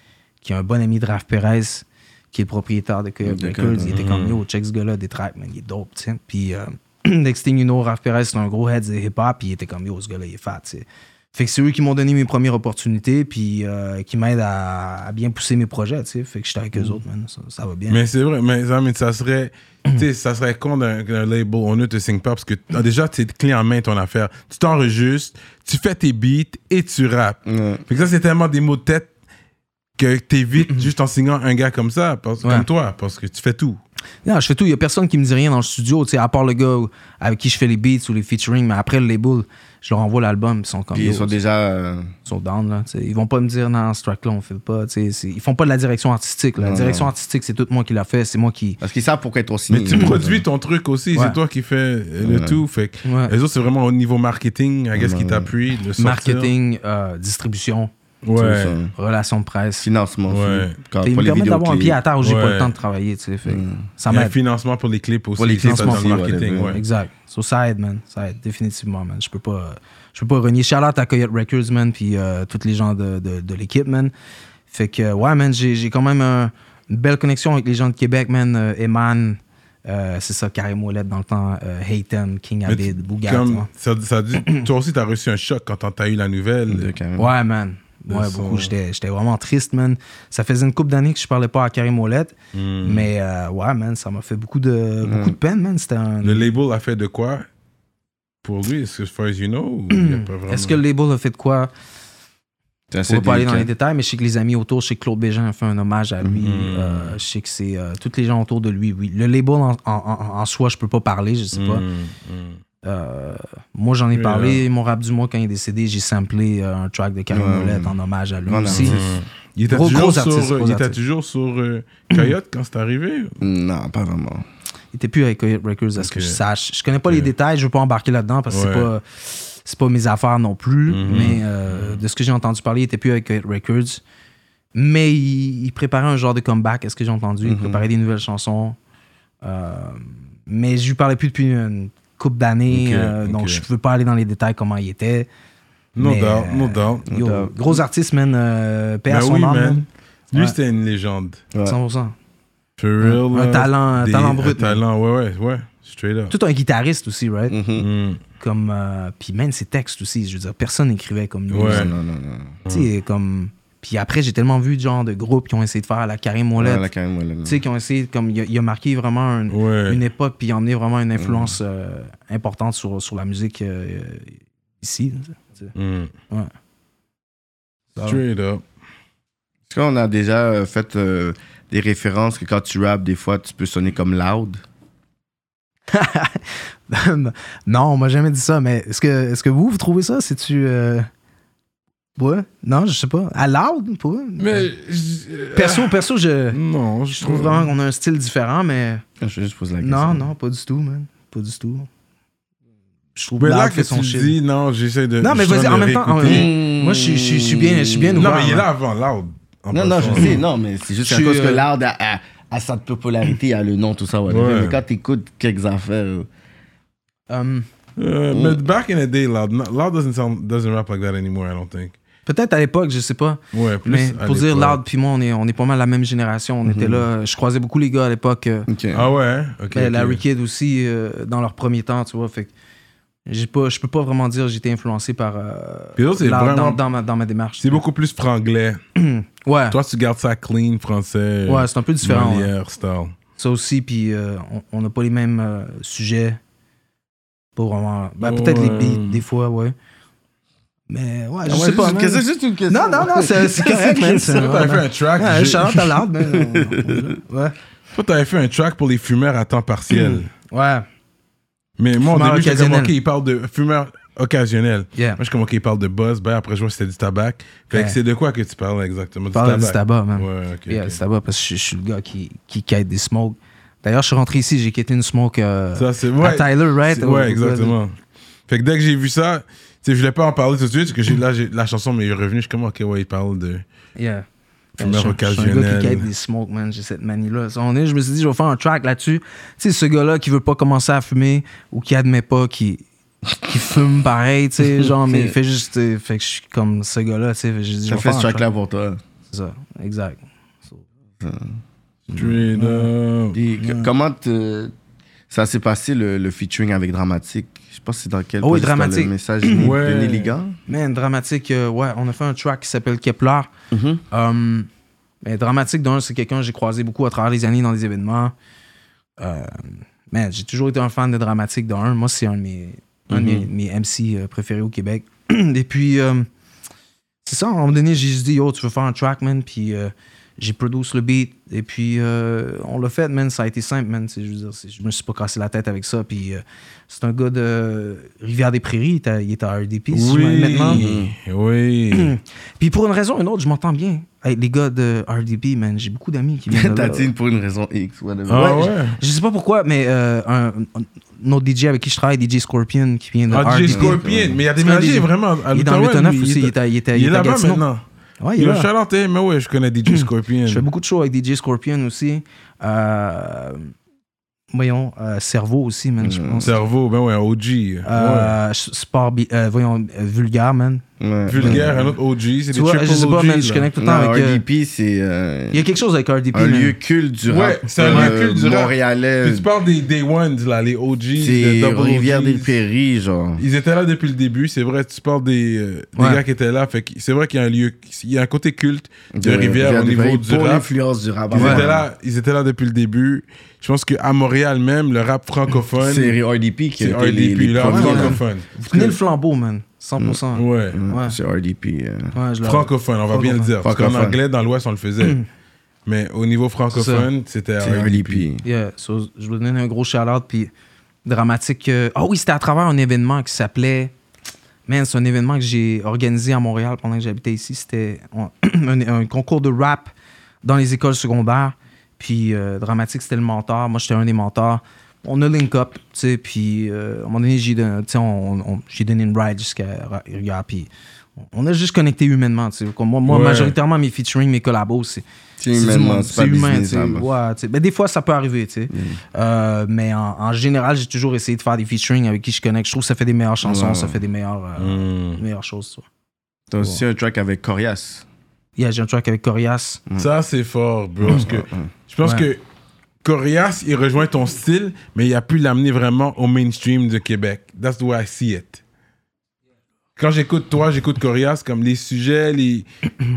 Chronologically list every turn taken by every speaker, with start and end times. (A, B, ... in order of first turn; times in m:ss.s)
0:00.4-0:18.0 A
0:03.2-0:04.0 B
0:03.9-0:04.4 C
0:17.9-0:29.1 C
0:27.5-0:27.8 B
0:30.0-0:33.8 C
0:34.2-0:41.4 A
0:40.9-0:42.1 B
0:42.3-0:48.8 A
0:46.6-0:47.1 B
0:48.8-0:50.4 B
0:49.7-0:56.5 C
0:50.0-0:50.2 A
0:52.2-0:52.6 B
0:53.0-0:53.3 A
0:55.0-0:55.5 B
0:56.0-0:57.9 A
0:58.2-0:58.8 C
0:58.4-0:58.9 B
0:59.0-0:59.9 A
0:59.8-1:02.0 B
1:00.3-1:00.8 C
1:01.0-1:04.4 A
1:02.2-1:02.7 C
1:03.5-1:03.8 B
1:04.1-1:06.8 C
1:05.4-1:06.8 B
1:05.6-1:06.1 A
1:06.7-1:14.1 A
1:14.7-1:23.7 A
1:22.7-1:26.9 C
1:26.7-1:27.3 B
1:27.2-1:36.5 A
1:28.1-1:28.7 C
1:32.5-1:33.1 C
1:35.0-1:35.4 B
1:36.2-1:37.5 C
1:38.4-1:40.8 C
1:39.9-1:41.7 A
1:42.9-1:43.7 B
1:43.1-1:51.8 A
1:46.4-1:47.2 C
1:51.5-1:52.6 C
1:52.8-1:59.0 A
1:54.1-1:54.6 C
1:57.3-1:57.9 B
1:58.5-1:59.0 B
1:58.7-2:03.4 C
1:59.7-2:01.0 A
2:03.4-2:04.4 B
2:04.9-2:14.0 A
2:06.0-2:06.4 C
2:08.5-2:08.9 C
2:10.9-2:12.0 C
2:14.7-2:18.8 A
2:17.4-2:17.8 B
2:19.4-2:25.3 A
2:22.7-2:23.6 C
2:26.0-2:27.1 C
2:26.0-2:30.6 A
2:27.1-2:27.8 B
2:29.1-2:31.4 C
2:31.6-2:32.2 A
2:32.8-2:36.3 C
2:33.0-2:34.8 A
2:36.3-2:37.6 A
2:37.5-2:37.9 B
2:37.8-2:38.2 C
2:38.4-2:41.9 A
2:41.5-2:41.9 C
2:41.5-2:42.6 B
2:42.6-2:42.9 C
2:42.7-2:46.9 A
2:46.6-2:47.6 B
2:47.4-2:55.7 A
2:49.5-2:50.0 C
2:51.2-2:51.6 B
2:55.8-2:56.1 C
2:58.0-2:58.2 A
2:58.0-2:58.6 C
2:59.7-3:04.6 B
3:05.9-3:11.1 A
3:12.2-3:14.7 A
3:14.4-3:16.0 C
3:15.5-3:16.6 A
3:16.5-3:17.7 C
3:17.1-3:19.0 A
3:19.2-3:20.3 B
3:19.8-3:21.9 A
3:23.2-3:24.4 A
3:23.4-3:26.5 C
3:25.2-3:28.7 A
3:26.2-3:28.2 B
3:28.2-3:30.4 C
3:29.7-3:36.3 B
3:30.2-3:30.4 A
3:31.0-3:31.6 A
3:34.3-3:34.8 C
3:37.3-3:37.7 A
3:38.0-3:42.0 C
3:38.3-3:38.6 B
3:42.3-3:48.7 A
3:43.5-3:44.8 C
3:46.6-3:47.1 B
3:48.7-3:49.1 B
3:48.9-3:50.2 C
3:49.7-3:52.5 A
3:53.3-3:57.8 A
3:56.0-3:56.8 C
3:57.6-3:58.8 C
3:59.0-3:59.8 A
3:59.7-4:03.1 C
4:01.5-4:02.5 A
4:03.4-4:06.4 A
4:07.6-4:09.8 A
4:08.2-4:09.2 C
4:10.9-4:17.6 A
4:11.5-4:14.7 B
4:14.3-4:16.0 C
4:16.3-4:17.1 B
4:17.9-4:20.3 C
4:20.0-4:20.9 A
4:21.8-4:31.0 C
4:22.0-4:22.9 A
4:25.0-4:25.2 A
4:27.7-4:28.0 A
4:29.3-4:37.8 A
4:35.8-4:37.9 C
4:38.5-4:43.6 C
4:44.0-4:44.2 A
4:44.8-4:52.8 A
4:44.8-4:46.1 C
4:53.4-4:58.4 A
4:54.8-4:55.4 B
4:57.9-4:59.0 B
4:59.3-5:00.8 A
5:01.2-5:01.6 B
5:02.1-5:02.9 A
5:02.1-5:03.4 C
5:03.3-5:04.7 B
5:03.6-5:03.9 A
5:05.3-5:10.6 B
5:08.4-5:09.7 A
5:09.6-5:10.4 C
5:10.7-5:13.5 A
5:13.7-5:14.0 B
5:14.1-5:14.7 A
5:15.2-5:18.3 A
5:19.2-5:26.3 A
5:23.1-5:23.5 B
5:27.2-5:40.8 A
5:39.9-5:42.1 C
5:40.7-5:41.2 B
5:41.9-5:47.1 A
5:46.5-5:48.7 B
5:48.3-5:49.0 C
5:48.3-5:54.0 A
5:53.3-5:57.8 C
5:53.7-5:54.4 B
5:54.6-5:57.6 A
5:58.2-5:58.7 A
5:58.4-6:00.6 C
5:59.9-6:03.7 A
6:04.5-6:06.6 A
6:06.0-6:06.5 B
6:06.4-6:08.4 C
6:07.8-6:10.8 A
6:11.0-6:11.8 B
6:11.3-6:13.7 C
6:11.4-6:11.8 A
6:12.5-6:14.4 A
6:13.8-6:15.6 B
6:15.5-6:16.8 A
6:16.3-6:19.5 B
6:17.3-6:22.6 C
6:17.8-6:18.2 A
6:21.2-6:23.4 B
6:23.4-6:30.7 C
6:26.0-6:26.2 A
6:29.1-6:31.9 B
6:31.3-6:36.2 C
6:31.4-6:31.6 A
6:35.8-6:38.2 B
6:36.8-6:38.5 C
6:37.6-6:41.2 A
6:40.4-6:40.8 C
6:40.7-6:42.1 B
6:42.1-6:43.5 A
6:42.4-6:45.2 C
6:43.6-6:44.2 B
6:45.9-6:48.3 C
6:46.7-6:47.1 A
6:47.6-6:48.4 B
6:48.4-6:50.5 A
6:51.0-6:53.9 A
6:54.7-6:59.9 A
7:00.4-7:10.7 A
7:11.2-7:25.9 A
7:13.1-7:13.6 C
7:15.4-7:17.1 B
7:18.7-7:19.0 B
7:23.4-7:24.0 B
7:24.6-7:25.2 C
7:26.5-7:28.0 B
7:28.6-7:29.8 A
7:30.0-7:32.4 C
7:31.1-7:31.7 B
7:33.0-7:38.6 C
7:40.0-7:42.7 C